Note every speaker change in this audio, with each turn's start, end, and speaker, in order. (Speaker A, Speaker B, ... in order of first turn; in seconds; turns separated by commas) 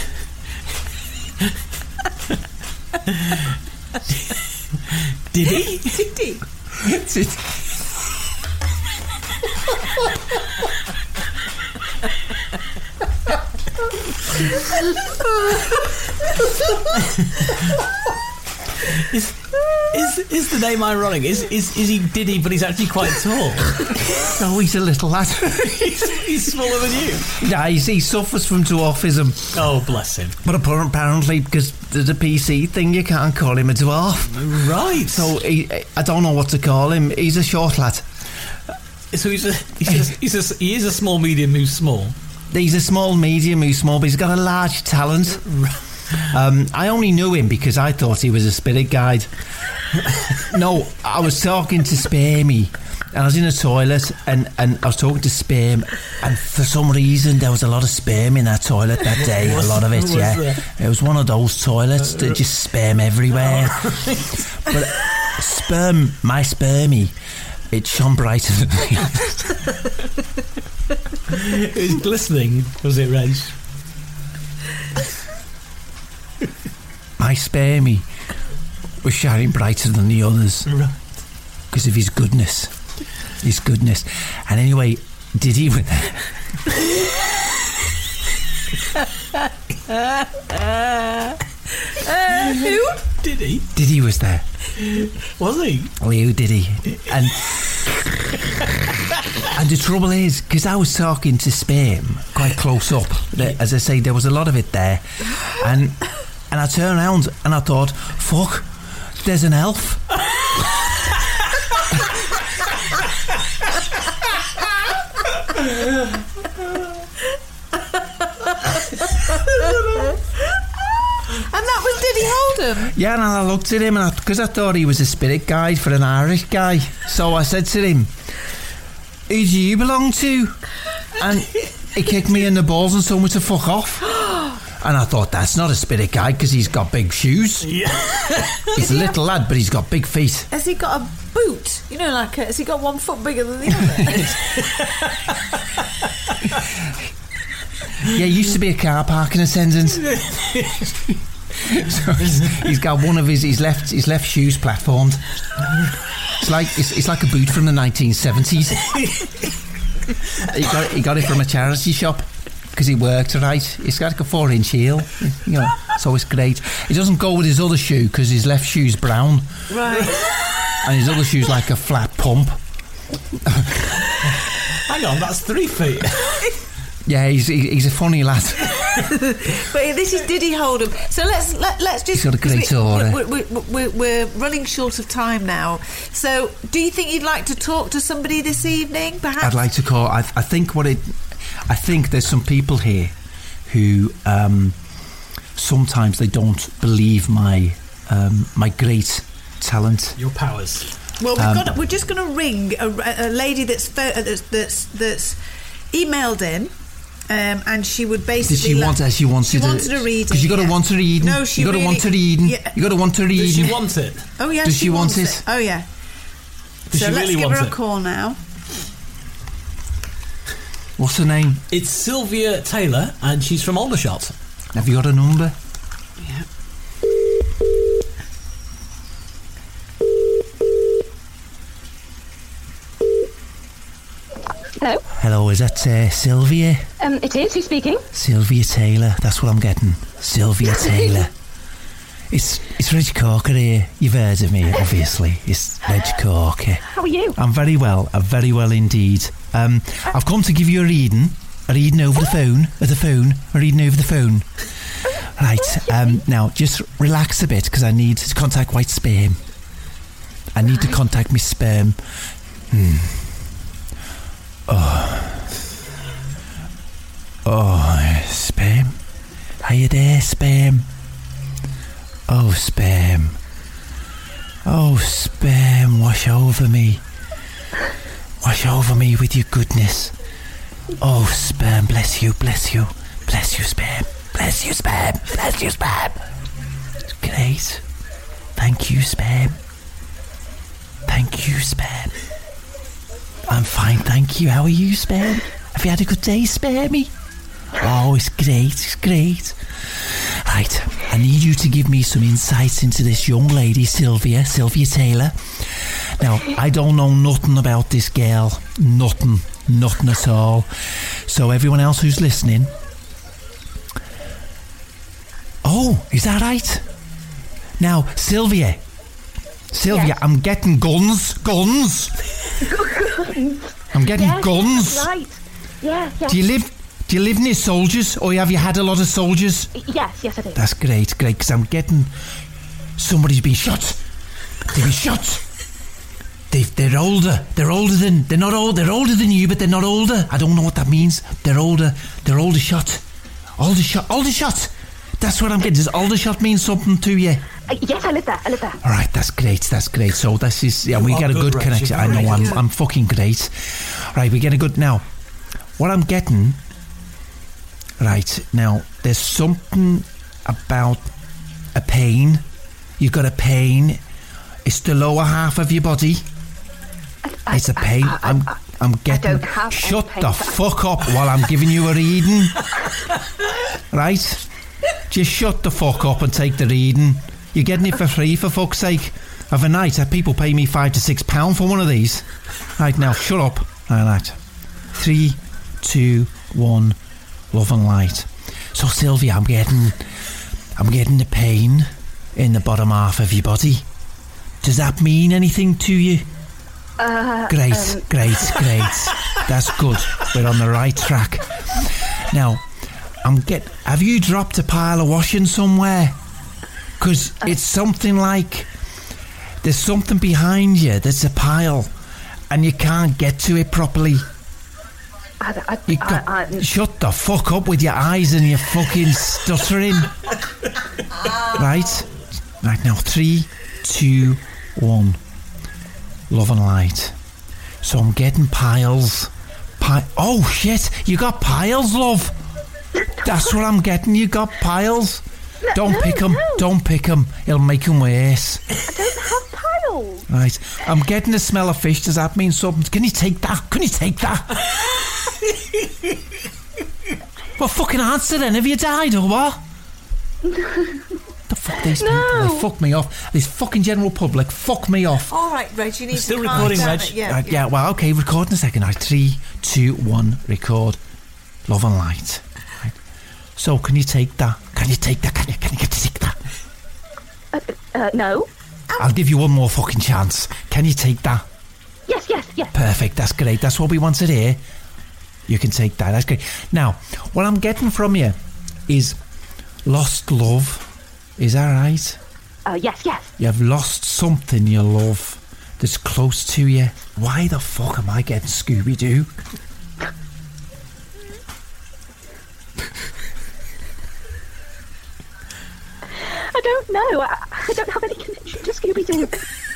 Speaker A: 5.3-6.1, Speaker B: 5.8-6.4, Speaker C: 6.8-7.5, Speaker A: 17.0-17.4, Speaker A: 18.9-23.9, Speaker C: 24.1-26.3, Speaker A: 25.9-27.4, Speaker C: 27.4-29.6, Speaker A: 29.5-30.4, Speaker C: 30.4-38.0, Speaker A: 34.3-35.3, Speaker A: 39.1-42.1, Speaker C: 42.5-45.4, Speaker A: 45.4-46.2, Speaker C: 46.3-49.3, Speaker C: 50.4-64.0, Speaker A: 59.1-60.6, Speaker A: 62.0-62.4, Speaker A: 63.3-64.4, Speaker C: 64.6-67.1, Speaker C: 67.7-69.4, Speaker A: 71.3-73.5, Speaker C: 77.2-78.1, Speaker C: 79.0-80.7, Speaker A: 80.7-80.9, Speaker C: 81.7-82.7, Speaker C: 83.4-86.2, Speaker B: 92.0-93.0, Speaker A: 92.5-93.7, Speaker C: 93.7-94.5, Speaker A: 94.8-95.9, Speaker C: 96.0-97.5, Speaker C: 99.5-108.7, Speaker C: 109.2-110.0, Speaker B: 121.3-122.9, Speaker C: 122.9-128.1, Speaker C: 129.3-130.6, Speaker C: 131.2-134.2, Speaker C: 134.8-137.7, Speaker A: 137.7-138.7, Speaker C: 138.7-140.5, Speaker B: 138.8-139.1, Speaker B: 140.5-144.4, Speaker C: 148.1-150.1, Speaker A: 150.1-150.9, Speaker C: 151.6-155.2, Speaker C: 156.4-158.9, Speaker A: 158.9-159.3, Speaker C: 160.4-169.5, Speaker B: 169.7-170.2, Speaker C: 170.8-172.6, Speaker C: 173.4-173.8, Speaker A: 174.8-176.4, Speaker C: 177.1-178.8, Speaker B: 179.0-189.6, Speaker C: 182.1-183.2, Speaker C: 189.4-193.1, Speaker C: 193.7-194.8, Speaker C: 195.6-200.2, Speaker A: 200.2-200.9, Speaker B: 201.2-205.4, Speaker C: 201.4-201.7, Speaker B: 205.9-206.7, Speaker B: 207.3-212.7, Speaker C: 208.4-213.8, Speaker A: 213.3-214.2, Speaker B: 214.4-215.9, Speaker C: 214.6-215.4, Speaker A: 216.9-217.8, Speaker B: 216.9-218.4, Speaker C: 221.0-221.6, Speaker A: 221.7-224.3, Speaker C: 224.7-225.6, Speaker D: 234.8-235.0, Speaker C: 235.1-236.8, Speaker D: 237.0-238.1, Speaker C: 238.1-241.3, Speaker D: 240.6-241.2, Speaker C: 242.3-254.6, Speaker D: 246.9-247.4, Speaker C: 255.3-259.4, Speaker C: 260.5-262.0, Speaker C: 262.7-263.4, Speaker C: 264.7-265.5, Speaker C: 267.4-268.9, Speaker C: 269.6-270.9, Speaker C: 272.3-273.4, Speaker C: 274.6-277.0, Speaker C: 278.4-280.1, Speaker C: 281.0-286.2, Speaker C: 287.1-287.8, Speaker C: 288.6-289.6, Speaker C: 291.1-292.1, Speaker C: 293.5-297.1, Speaker C: 297.7-305.6, Speaker C: 306.2-310.7, Speaker C: 311.2-312.7, Speaker C: 315.6-316.8, Speaker C: 317.8-318.8, Speaker C: 319.7-322.1, Speaker D: 319.8-320.2, Speaker D: 322.6-326.4, Speaker C: 323.9-325.1, Speaker C: 326.2-329.7, Speaker D: 329.7-330.6, Speaker C: 330.5-332.1, Speaker C: 333.0-334.0, Speaker C: 334.7-335.4, Speaker C: 336.5-343.0, Speaker C: 343.6-347.4, Speaker D: 347.7-348.8, Speaker C: 348.8-355.0, Speaker A: 350.9-352.6, Speaker C: 355.8-356.6, Speaker C: 358.0-361.1, Speaker C: 361.7-362.4, Speaker C: 363.0-364.0, Speaker C: 364.6-366.2, Speaker D: 367.2-368.6, Speaker C: 367.5-372.6, Speaker D: 369.1-370.6, Speaker C: 373.9-374.4, Speaker C: 375.1-382.2, Speaker C: 382.8-384.4, Speaker C: 384.9-387.0, Speaker C: 387.5-390.0, Speaker C: 390.8-393.8, Speaker C: 394.6-396.2, Speaker D: 397.0-398.7, Speaker C: 397.5-402.6, Speaker C: 403.2-406.2, Speaker C: 407.0-408.7, Speaker C: 409.6-411.9, Speaker C: 412.5-414.2, Speaker D: 415.4-416.7, Speaker C: 415.9-420.1, Speaker C: 421.4-425.2, Speaker C: 426.3-427.1, Speaker C: 427.8-432.4, Speaker C: 433.2-438.6, Speaker D: 433.3-433.5, Speaker D: 435.6-436.6, Speaker D: 438.9-440.3, Speaker C: 440.3-444.6, Speaker C: 447.6-449.6, Speaker C: 451.5-455.3, Speaker D: 451.8-452.7, Speaker B: 455.3-457.6, Speaker A: 456.1-457.2, Speaker C: 456.5-461.0, Speaker C: 461.6-463.0, Speaker C: 463.6-466.4, Speaker D: 467.5-468.5, Speaker C: 468.9-471.4, Speaker D: 472.1-472.7, Speaker C: 472.7-474.6, Speaker C: 475.5-478.4, Speaker C: 478.9-479.2, Speaker C: 479.8-482.2, Speaker D: 482.6-483.3, Speaker C: 483.4-489.3, Speaker D: 496.2-499.4